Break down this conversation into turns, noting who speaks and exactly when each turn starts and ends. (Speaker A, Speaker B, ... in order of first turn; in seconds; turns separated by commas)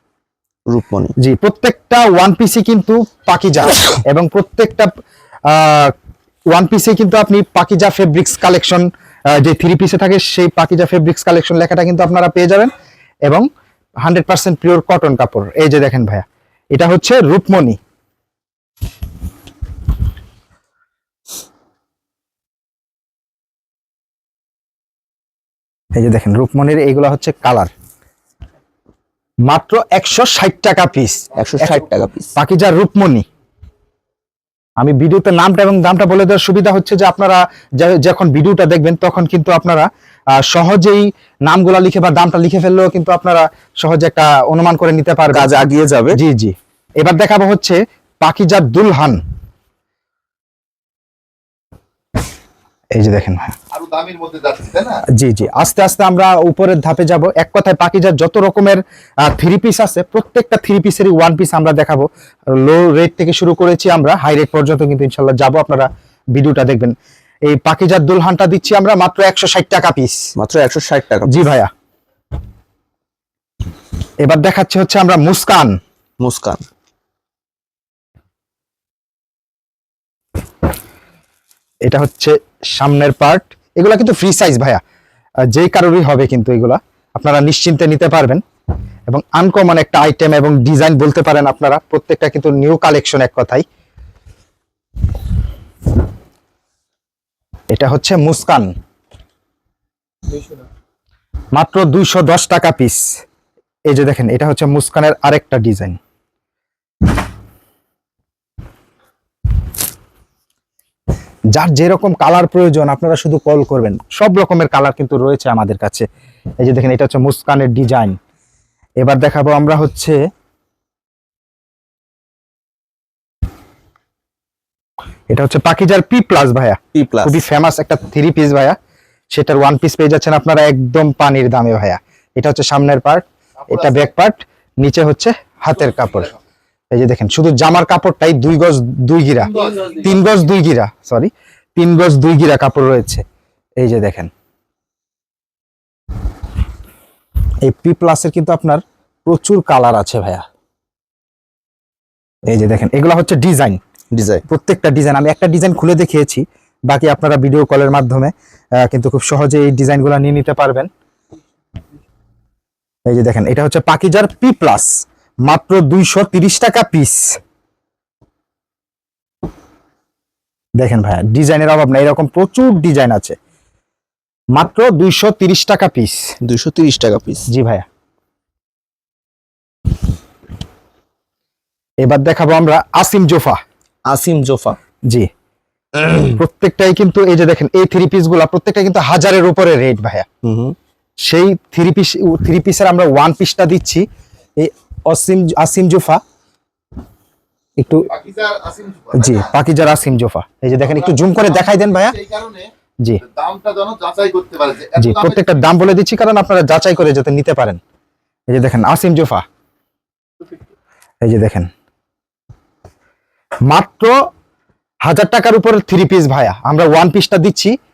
Speaker A: 0.7-1.1, Speaker B: 1.2-4.9, Speaker B: 5.5-5.9, Speaker B: 6.5-12.7, Speaker B: 14.0-17.8, Speaker B: 26.0-27.7, Speaker B: 29.5-31.8, Speaker A: 31.3-32.3, Speaker B: 32.4-33.2, Speaker B: 34.8-45.5, Speaker A: 45.3-46.2, Speaker B: 46.1-49.2, Speaker B: 53.0-53.5, Speaker C: 53.7-55.0, Speaker B: 55.1-66.9, Speaker B: 67.5-70.2, Speaker A: 70.3-71.3, Speaker B: 71.3-71.7, Speaker B: 74.2-75.7, Speaker A: 76.2-76.6, Speaker B: 81.8-84.8, Speaker B: 85.5-88.4, Speaker B: 89.1-93.6, Speaker B: 97.7-98.7, Speaker B: 101.5-103.0, Speaker B: 103.9-106.0, Speaker B: 111.5-116.0, Speaker B: 116.6-118.2, Speaker B: 119.0-120.2, Speaker B: 125.3-128.8, Speaker A: 126.9-127.4, Speaker B: 129.3-136.3, Speaker B: 136.9-143.2, Speaker B: 143.8-144.3, Speaker B: 147.6-150.4, Speaker B: 152.5-153.8, Speaker A: 154.1-154.4, Speaker B: 154.5-160.9, Speaker B: 163.1-164.9, Speaker B: 165.5-167.4, Speaker B: 170.8-173.3, Speaker B: 174.6-176.2, Speaker A: 176.4-177.5, Speaker B: 177.5-177.8, Speaker B: 182.0-183.6, Speaker A: 184.1-184.8, Speaker B: 186.1-190.3, Speaker A: 190.4-190.8, Speaker B: 191.2-194.0, Speaker B: 194.6-196.2, Speaker B: 197.8-198.1, Speaker C: 198.1-199.5, Speaker B: 199.1-202.2, Speaker C: 201.7-202.7, Speaker C: 203.2-205.4, Speaker B: 205.0-207.8, Speaker B: 208.5-209.4, Speaker B: 211.2-211.7, Speaker B: 213.7-214.1, Speaker B: 215.1-217.7